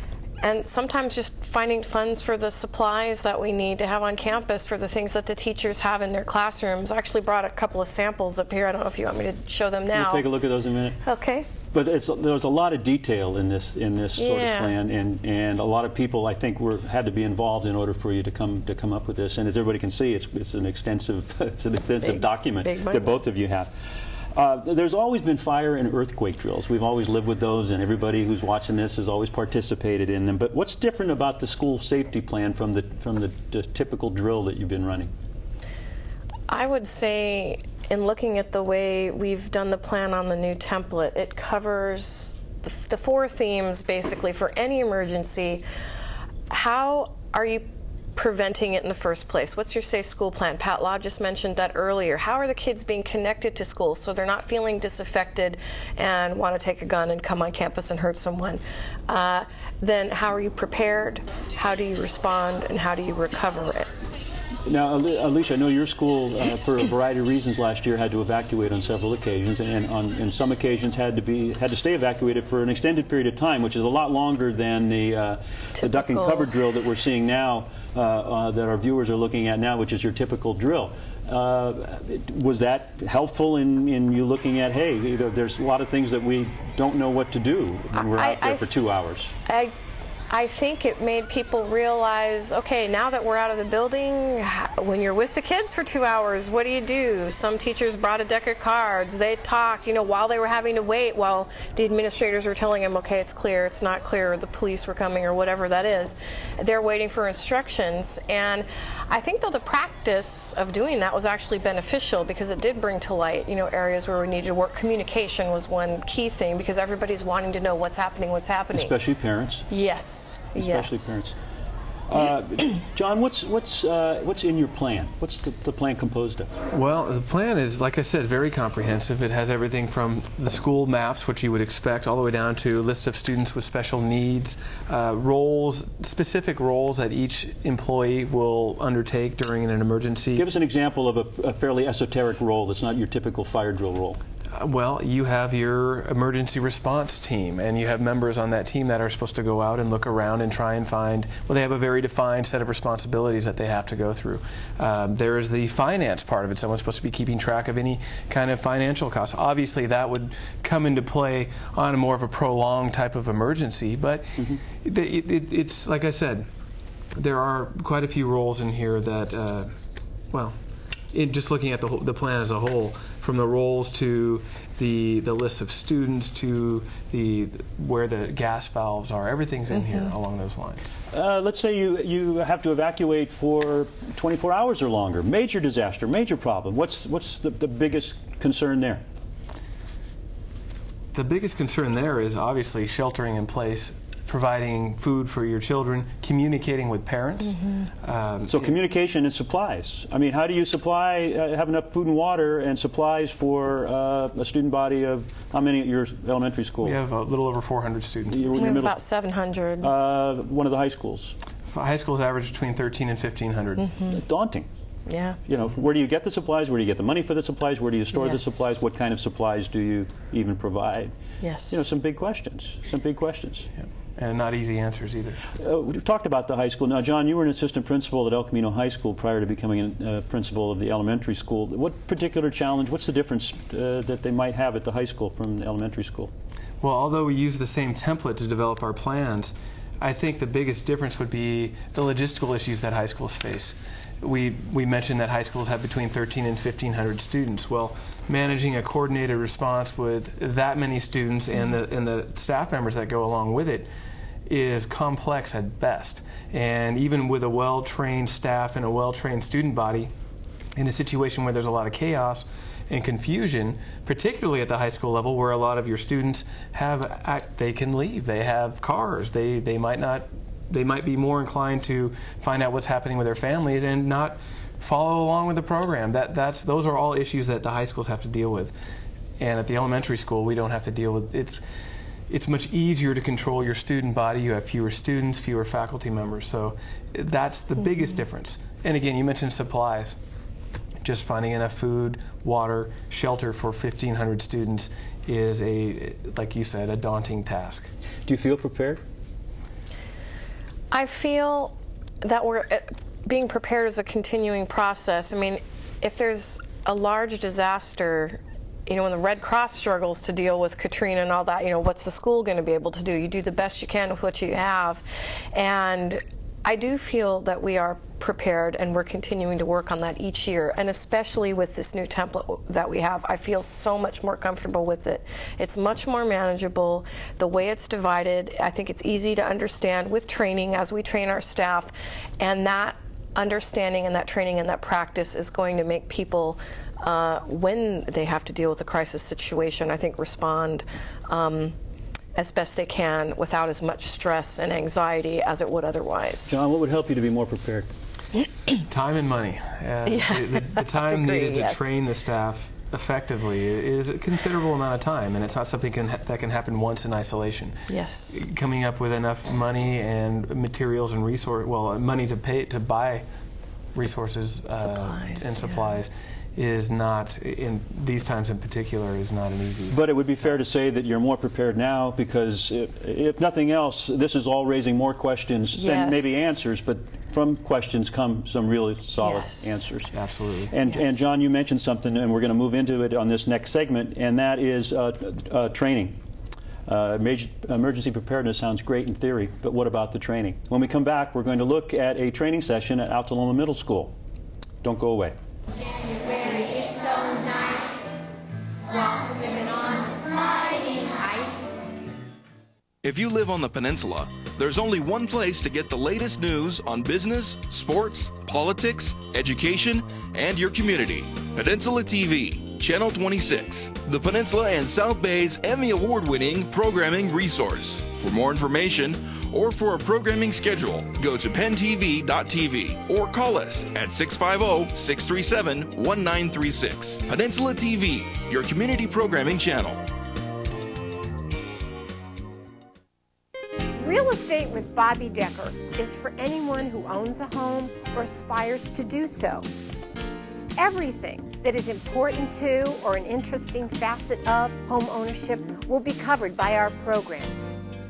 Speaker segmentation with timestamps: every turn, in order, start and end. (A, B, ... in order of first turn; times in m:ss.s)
0:00.4-0:10.2 A
0:09.9-0:11.0 B
0:11.0-0:11.6 A
0:11.7-0:35.1 B
0:14.2-0:14.8 A
0:22.0-0:23.2 A
0:36.5-0:45.6 A
0:46.5-1:03.9 A
1:04.7-1:29.3 B
1:15.8-1:16.4 A
1:28.0-1:28.8 A
1:29.5-1:29.7 A
1:30.3-1:59.0 A
1:58.7-1:59.7 B
1:59.7-2:01.2 A
2:00.6-2:01.4 B
2:02.1-2:06.5 B
2:06.7-2:20.5 C
2:20.4-2:24.2 B
2:24.5-2:46.5 C
2:47.1-2:49.7 C
2:50.3-2:50.6 C
2:51.1-3:00.9 C
2:59.7-3:00.1 A
3:01.1-3:09.0 B
3:11.1-3:18.8 C
3:17.5-3:17.9 A
3:18.5-3:27.0 B
3:26.8-3:28.9 C
3:28.3-3:29.0 B
3:28.6-3:29.9 A
3:29.8-3:31.4 B
3:31.7-3:33.9 C
3:33.8-3:34.2 A
3:34.1-3:34.7 B
3:35.1-3:35.4 A
3:35.4-3:41.1 B
3:38.2-3:38.7 A
3:41.4-3:41.8 A
3:41.7-3:43.7 B
3:43.8-3:45.4 C
3:45.6-3:56.3 B
3:56.8-4:13.9 C
4:14.5-4:20.1 C
4:20.8-4:38.8 C
4:39.4-4:41.6 C
4:42.3-4:50.2 C
4:51.0-4:57.9 C
4:58.3-4:59.0 B
5:00.9-5:41.8 A
5:42.4-5:46.6 A
5:46.5-5:47.9 B
5:48.9-5:57.8 C
5:50.1-5:51.9 A
5:57.9-5:58.4 A
5:58.3-6:03.2 C
6:03.9-6:10.0 C
6:04.8-6:06.0 A
6:09.9-6:20.1 B
6:15.8-6:16.6 A
6:19.2-6:19.9 A
6:20.1-6:20.7 C
6:20.7-6:26.2 B
6:20.9-6:21.2 A
6:26.9-6:34.1 B
6:34.8-6:35.4 B
6:43.0-7:10.0 D
7:13.9-7:19.7 E
7:20.8-7:27.6 E